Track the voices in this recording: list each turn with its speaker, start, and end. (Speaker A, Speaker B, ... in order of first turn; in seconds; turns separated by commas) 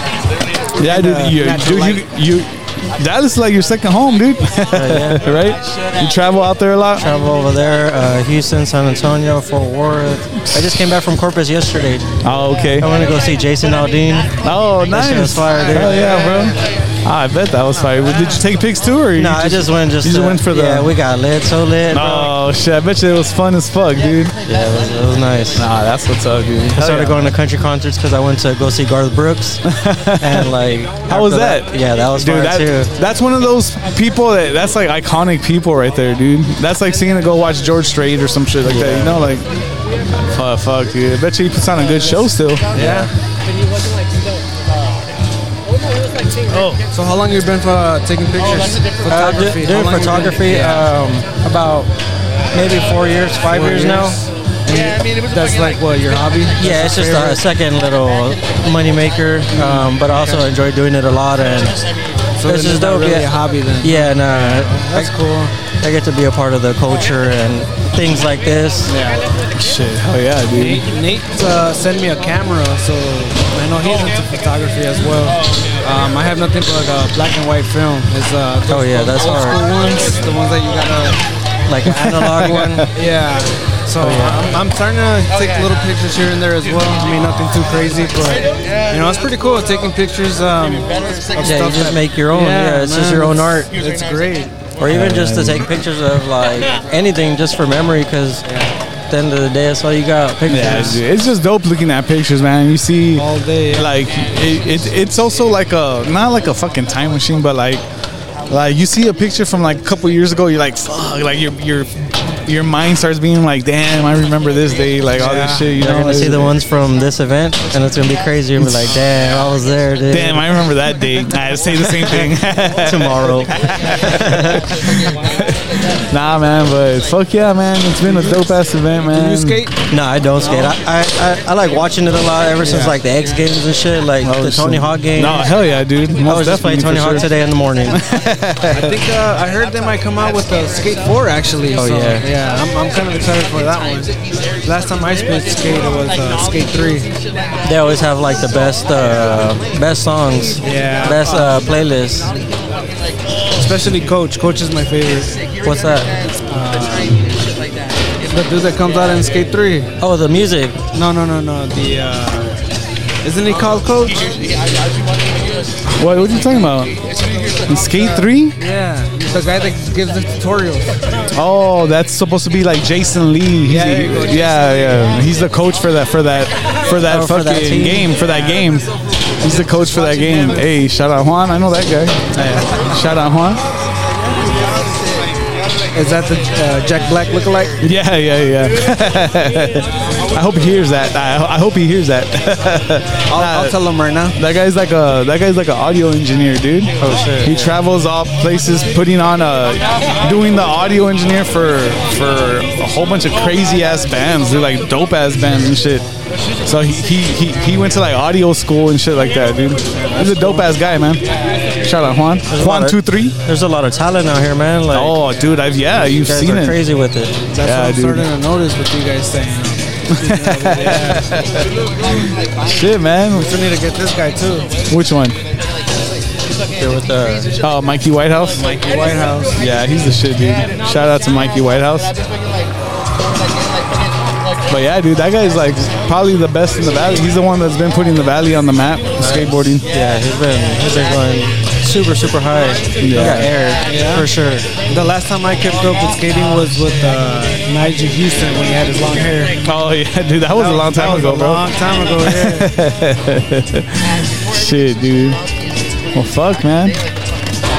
Speaker A: 0.8-2.0, Speaker B: 0.8-7.1, Speaker C: 4.7-5.2, Speaker C: 7.0-12.1, Speaker B: 10.4-10.8, Speaker B: 12.2-12.9, Speaker C: 12.8-14.3, Speaker B: 14.4-20.9, Speaker C: 14.9-16.2, Speaker A: 15.6-16.5, Speaker C: 19.1-22.3, Speaker B: 21.9-24.4, Speaker C: 24.4-25.6, Speaker B: 25.6-27.4, Speaker C: 26.7-29.6, Speaker B: 29.6-30.5, Speaker C: 30.2-32.9, Speaker B: 31.1-39.5, Speaker C: 38.6-39.2, Speaker B: 40.1-42.8, Speaker C: 42.7-43.1, Speaker A: 42.8-43.1, Speaker A: 46.7-50.9, Speaker C: 49.1-51.9, Speaker C: 52.5-54.2, Speaker A: 53.5-57.4, Speaker C: 56.6-61.8, Speaker A: 59.5-60.4, Speaker A: 62.4-65.5, Speaker C: 62.5-63.3, Speaker C: 63.8-65.1, Speaker C: 65.8-68.9, Speaker A: 68.9-69.2, Speaker B: 69.5-70.8, Speaker A: 70.5-81.2, Speaker C: 78.7-79.6, Speaker C: 81.7-82.9, Speaker B: 81.9-82.8, Speaker A: 82.9-94.5, Speaker C: 84.0-84.4, Speaker C: 91.4-93.7, Speaker C: 94.8-98.4, Speaker B: 94.8-95.7, Speaker A: 98.5-98.7, Speaker C: 99.1-101.0, Speaker B: 100.5-107.8, Speaker A: 103.2-103.9, Speaker B: 108.5-116.5, Speaker A: 115.2-115.8, Speaker C: 115.8-120.6, Speaker B: 118.6-119.0, Speaker B: 120.1-129.6, Speaker C: 122.8-123.5, Speaker C: 124.0-124.6, Speaker A: 128.1-128.4, Speaker A: 129.1-129.8, Speaker C: 129.9-135.4, Speaker A: 130.4-130.7, Speaker A: 132.7-132.9, Speaker B: 134.2-137.3, Speaker C: 136.2-138.0, Speaker B: 137.9-138.9, Speaker A: 138.7-147.1, Speaker C: 141.8-142.2, Speaker C: 147.6-152.3, Speaker A: 150.6-151.6, Speaker A: 153.6-155.4, Speaker C: 155.6-156.1, Speaker A: 156.5-157.2, Speaker A: 158.3-159.9, Speaker C: 160.0-160.8, Speaker A: 160.9-162.5, Speaker A: 163.2-164.4, Speaker B: 165.9-167.0, Speaker B: 167.7-168.6, Speaker A: 168.6-170.9, Speaker B: 171.3-178.9, Speaker A: 173.6-174.7, Speaker C: 177.0-178.1, Speaker B: 179.4-183.6, Speaker A: 185.9-187.8, Speaker B: 187.8-193.8, Speaker A: 193.3-194.4, Speaker B: 194.3-206.1, Speaker C: 197.0-197.7, Speaker B: 206.6-211.2, Speaker A: 209.9-210.7, Speaker B: 211.8-213.4, Speaker C: 212.5-215.2, Speaker B: 214.9-216.8, Speaker A: 215.3-215.6, Speaker C: 216.0-217.4, Speaker A: 217.5-221.3, Speaker B: 217.6-218.3, Speaker B: 220.2-223.5, Speaker A: 223.3-224.8, Speaker B: 224.9-225.4, Speaker C: 226.8-227.5, Speaker B: 227.6-228.7, Speaker A: 228.6-229.6, Speaker B: 229.6-232.1, Speaker B: 234.7-239.8, Speaker C: 239.2-244.7, Speaker B: 243.0-243.5, Speaker A: 243.8-249.6, Speaker B: 249.6-251.6, Speaker A: 250.5-252.7, Speaker B: 252.2-255.4, Speaker B: 256.1-257.0